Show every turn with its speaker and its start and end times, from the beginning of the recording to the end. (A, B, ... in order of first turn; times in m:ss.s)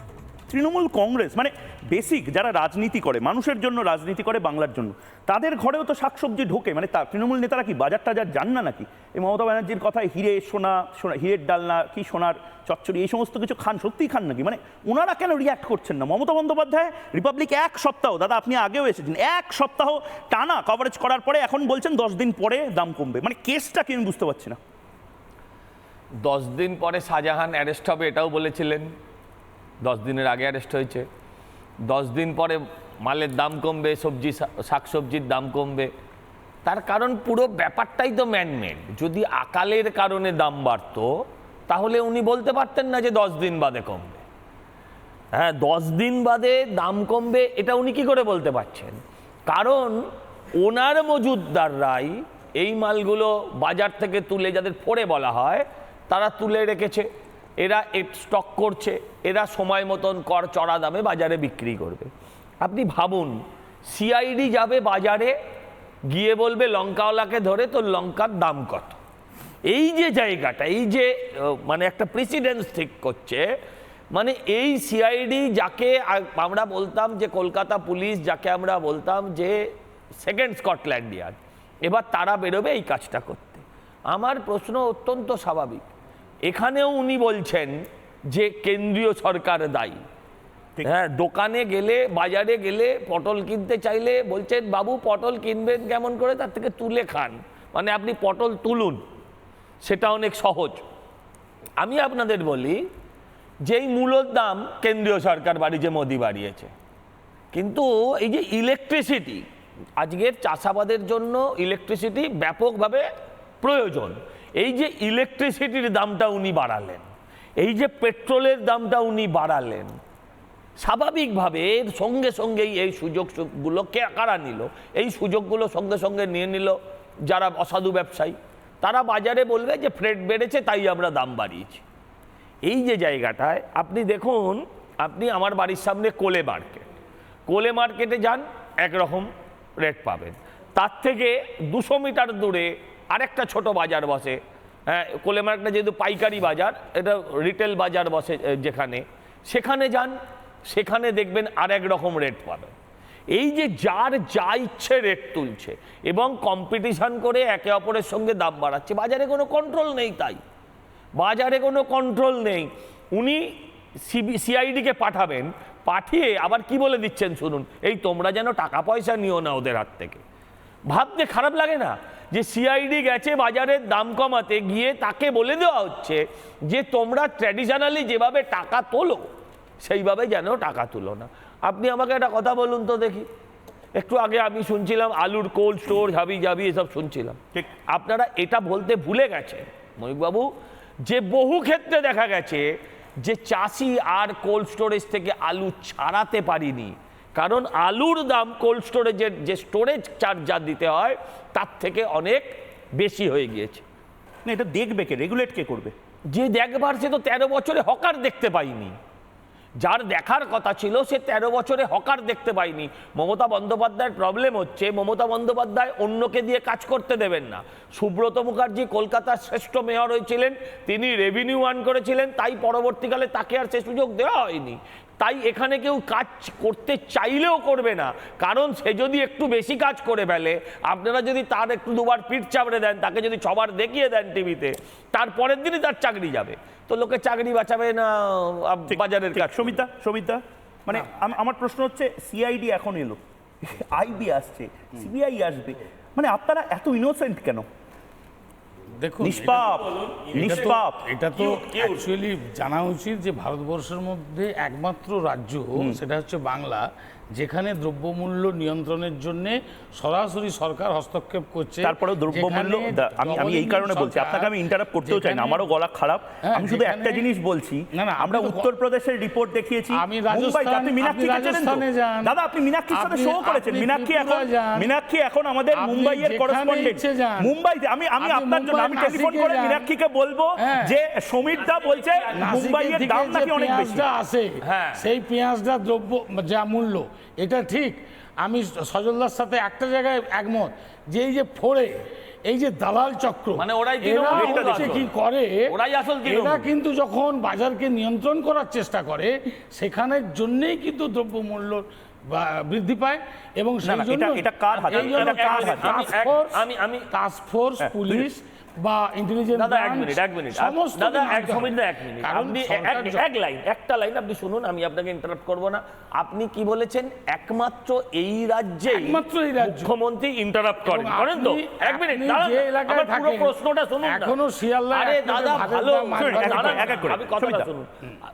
0:00.5-0:24.6 A
0:26.2-0:28.9 B
0:29.8-0:31.1 B
0:31.9-0:35.9 B
0:36.6-0:41.1 B
0:41.7-0:44.2 B
0:45.4-0:49.0 B
0:49.5-0:50.1 B
0:50.6-0:57.1 B
0:57.6-1:02.1 B
1:02.6-1:05.4 B
1:06.1-1:09.0 B
1:09.7-1:13.5 B
1:14.2-1:19.6 B
1:20.2-1:25.8 B
1:26.5-1:30.0 B
1:30.8-1:39.0 B
1:39.8-1:40.8 B
1:41.8-1:42.8 B
1:43.7-1:46.7 B
1:47.5-1:49.4 B
1:50.0-1:53.1 B
1:53.6-1:57.1 B
1:57.6-1:59.9 B
2:00.8-2:11.8 B
2:12.6-2:16.9 B
2:17.5-2:19.3 B
2:19.8-2:30.2 B
2:30.7-2:32.8 B
2:33.4-2:40.4 B
2:41.2-2:43.5 B
2:44.0-2:50.2 B
2:50.9-2:59.3 B
2:59.8-3:03.3 B
3:04.0-3:07.4 B
3:07.9-3:10.5 B
3:11.0-3:12.7 B
3:13.2-3:23.8 B
3:24.5-3:25.9 A
3:26.3-3:29.0 B
3:29.8-3:59.8 B
3:58.9-4:07.7 A
4:09.0-4:09.8 C
4:09.2-4:11.0 A
4:10.0-4:10.8 B
4:10.3-4:25.7 C
4:11.3-4:12.1 B
4:15.8-4:16.0 A
4:21.8-4:44.1 A
4:26.4-4:27.3 C
4:27.9-4:28.7 C
4:29.9-4:32.4 C
4:32.9-4:34.9 C
4:35.7-4:37.5 C
4:38.2-4:39.9 C
4:40.6-4:40.9 C
4:41.6-4:42.4 B
4:42.3-4:55.7 C
4:44.6-4:45.0 B
4:53.6-4:55.1 B
4:54.3-4:55.0 A
4:55.7-4:56.7 B
4:56.2-5:13.2 C
5:03.8-5:06.1 A
5:04.7-5:07.1 B
5:07.8-5:08.3 A
5:09.5-5:24.4 B
5:18.9-5:19.9 C
5:20.8-5:27.2 C
5:24.9-5:27.9 B
5:26.2-5:27.7 A